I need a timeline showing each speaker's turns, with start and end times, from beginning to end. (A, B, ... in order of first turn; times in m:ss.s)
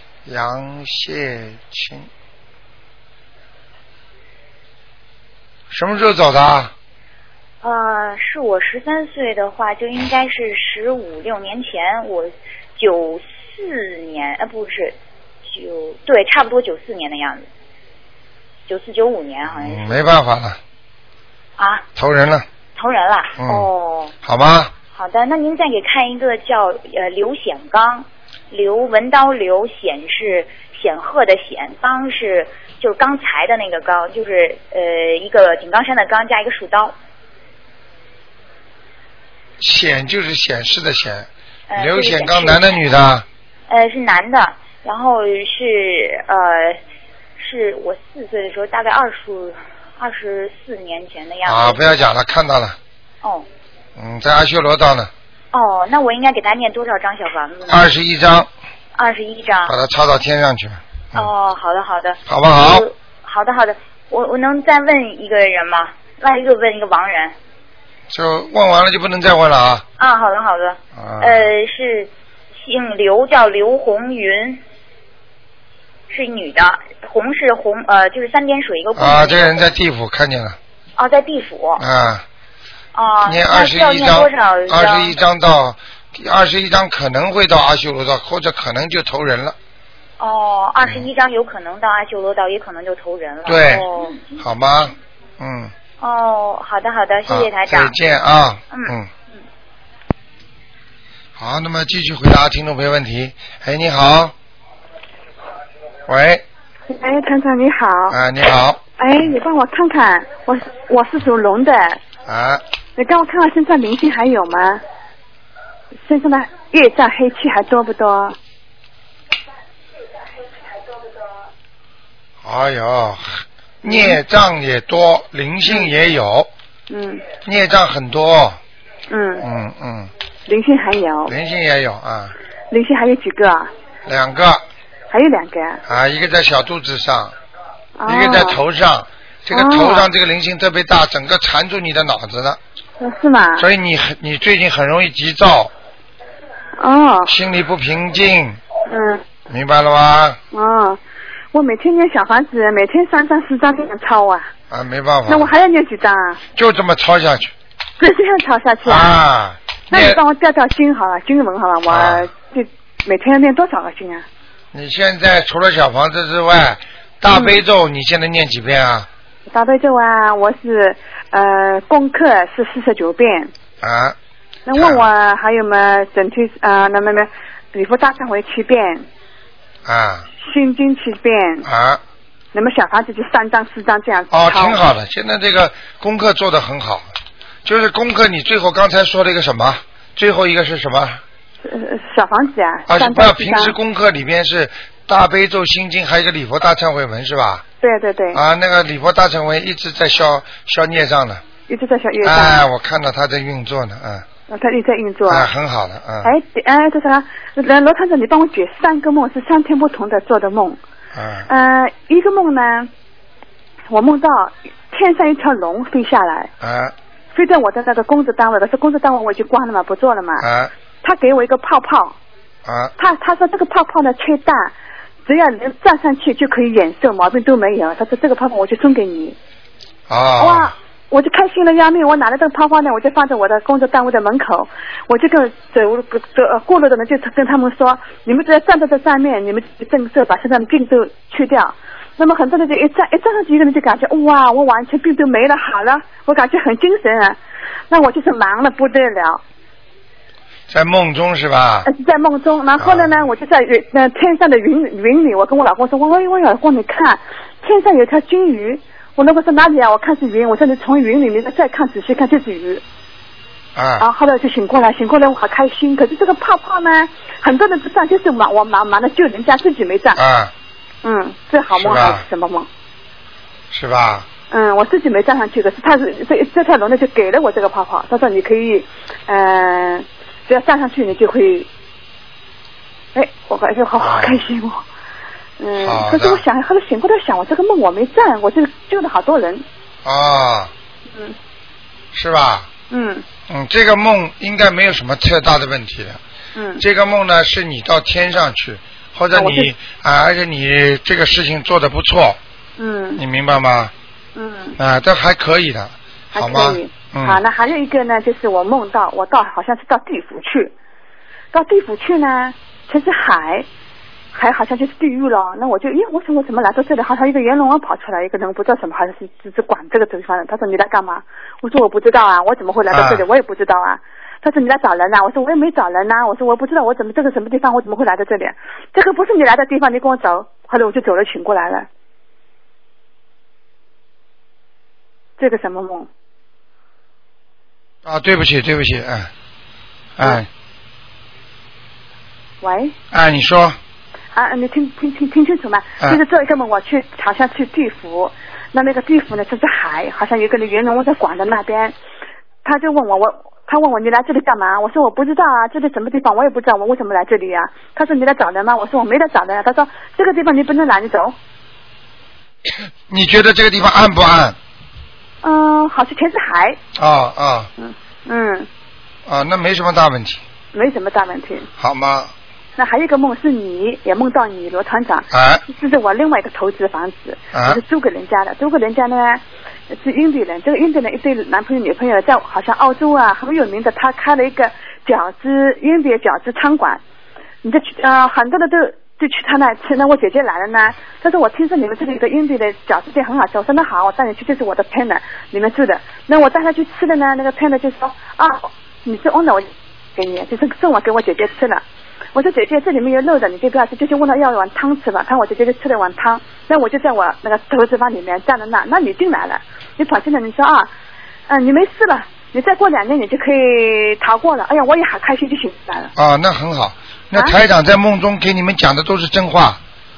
0:00.2-0:02.1 A
0:05.7-0:06.7 A
0:07.6-0:17.5 B
0:18.7-0:20.0 B
0:19.5-0:20.6 A
0:21.6-0:21.8 B
0:22.0-0:22.4 A
0:22.7-0:24.1 B
0:23.4-0:23.7 A
0:24.2-0:24.7 A
0:24.9-0:37.0 B
0:39.6-0:43.2 A
0:41.7-0:42.8 B
0:43.7-0:46.8 B
0:47.4-0:52.0 B
0:51.4-0:52.8 A
0:54.0-0:55.1 A
0:55.5-0:57.9 B
0:57.7-0:58.5 A
0:58.9-0:59.8 B
0:59.6-1:01.3 A
1:01.1-1:07.4 B
1:02.3-1:02.8 A
1:08.1-1:09.8 A
1:10.0-1:14.6 B
1:10.9-1:11.5 A
1:16.1-1:19.7 B
1:19.0-1:20.6 A
1:21.0-1:21.8 B
1:21.8-1:22.2 A
1:22.9-1:25.1 B
1:23.2-1:29.6 A
1:30.2-1:34.4 B
1:33.4-1:35.7 A
1:36.0-1:38.0 B
1:37.3-1:39.1 A
1:38.7-1:38.9 B
1:41.4-1:44.3 A
1:46.1-1:46.4 A
1:46.9-1:48.2 C
1:48.1-1:48.8 A
1:49.0-1:52.0 C
1:52.2-1:52.6 A
1:53.0-1:54.8 C
1:56.0-1:58.4 C
2:02.4-2:06.5 A
2:03.8-2:04.2 C
2:05.6-2:05.9 C
2:06.9-2:07.2 C
2:07.4-2:08.6 A
2:09.1-2:09.4 C
2:09.4-2:10.1 A
2:10.5-2:11.3 C
2:11.3-2:12.3 A
2:12.7-2:13.7 C
2:14.0-2:14.6 A
2:15.1-2:15.8 C
2:15.9-2:17.3 A
2:18.0-2:18.6 C
2:18.1-2:22.6 A
2:19.5-2:20.1 C
2:23.0-2:23.7 C
2:23.6-2:25.7 A
2:26.8-2:27.3 C
2:27.3-2:28.6 A
2:28.9-2:29.2 C
2:29.5-2:30.4 A
2:30.5-2:31.0 C
2:31.5-2:34.5 C
2:34.7-2:35.5 A
2:35.3-2:36.4 C
2:36.5-2:37.5 A
2:38.0-2:39.2 C
2:38.8-2:40.2 A
2:39.9-2:44.2 C
2:41.9-2:42.3 A
2:44.7-2:49.1 A
2:47.3-2:47.6 C
2:49.5-2:53.5 C
2:53.8-2:54.2 A
2:54.6-2:59.1 C
2:54.8-2:55.1 A
2:59.8-3:00.3 A
3:00.4-3:01.7 C
3:01.6-3:02.0 A
3:02.5-3:04.8 C
3:04.3-3:07.1 A
3:07.6-3:11.2 A
3:11.6-3:13.8 C
3:12.9-3:17.6 A
3:17.8-3:18.4 C
3:18.3-3:21.4 A
3:21.7-3:22.6 C
3:22.2-3:24.2 A
3:24.5-3:25.5 C
3:25.3-3:26.3 A
3:26.2-3:30.8 C
3:31.1-3:31.5 A
3:31.5-3:32.9 C
3:33.9-3:36.5 C
3:36.6-3:36.9 A
3:37.3-3:40.4 C
3:40.4-3:40.7 A
3:41.0-3:42.2 C
3:42.6-3:42.9 A
3:43.0-3:44.7 C
3:45.2-3:49.4 C
3:50.1-3:50.7 A
3:50.4-4:07.4 C
4:07.9-4:09.4 C
4:10.7-4:11.9 A
4:11.8-4:22.8 C
4:12.8-4:13.1 A
4:23.8-4:24.1 A
4:24.0-4:30.2 C
4:30.1-4:30.5 A
4:31.0-4:32.7 C
4:31.7-4:32.2 A
4:33.7-4:34.2 A
4:34.5-4:41.7 C
4:43.1-4:44.8 C
4:44.0-4:44.4 A
4:45.6-4:49.6 C
4:45.8-4:46.4 A
4:50.0-4:50.7 A
4:51.1-4:51.4 C
4:52.1-4:52.7 A
4:52.9-4:53.2 C
4:53.5-4:56.2 A
4:56.5-4:56.8 C
4:56.8-5:02.4 A
4:59.3-4:59.7 C
5:02.8-5:03.2 C
5:03.2-5:03.9 A
5:04.3-5:04.8 C
5:04.8-5:07.4 A
5:06.3-5:10.7 C
5:11.5-5:13.6 C
5:14.3-5:31.9 C
5:22.9-5:23.2 A
5:35.4-5:36.1 C
5:38.0-5:39.3 A
5:40.2-5:40.5 A
5:42.6-5:42.9 C
5:43.1-5:43.8 A
5:44.3-5:51.9 C
5:52.6-6:01.3 C
6:03.1-6:04.6 A
6:05.4-6:06.8 C
6:07.0-6:07.7 A
6:07.8-6:08.7 C
6:09.2-6:10.4 A
6:10.7-6:11.7 C
6:11.8-6:12.3 A
6:12.8-6:27.0 C
6:15.3-6:15.6 A
6:17.5-6:17.8 A
6:27.6-6:41.8 C
6:42.3-6:50.9 C
6:51.5-6:56.1 C
6:56.2-6:59.8 A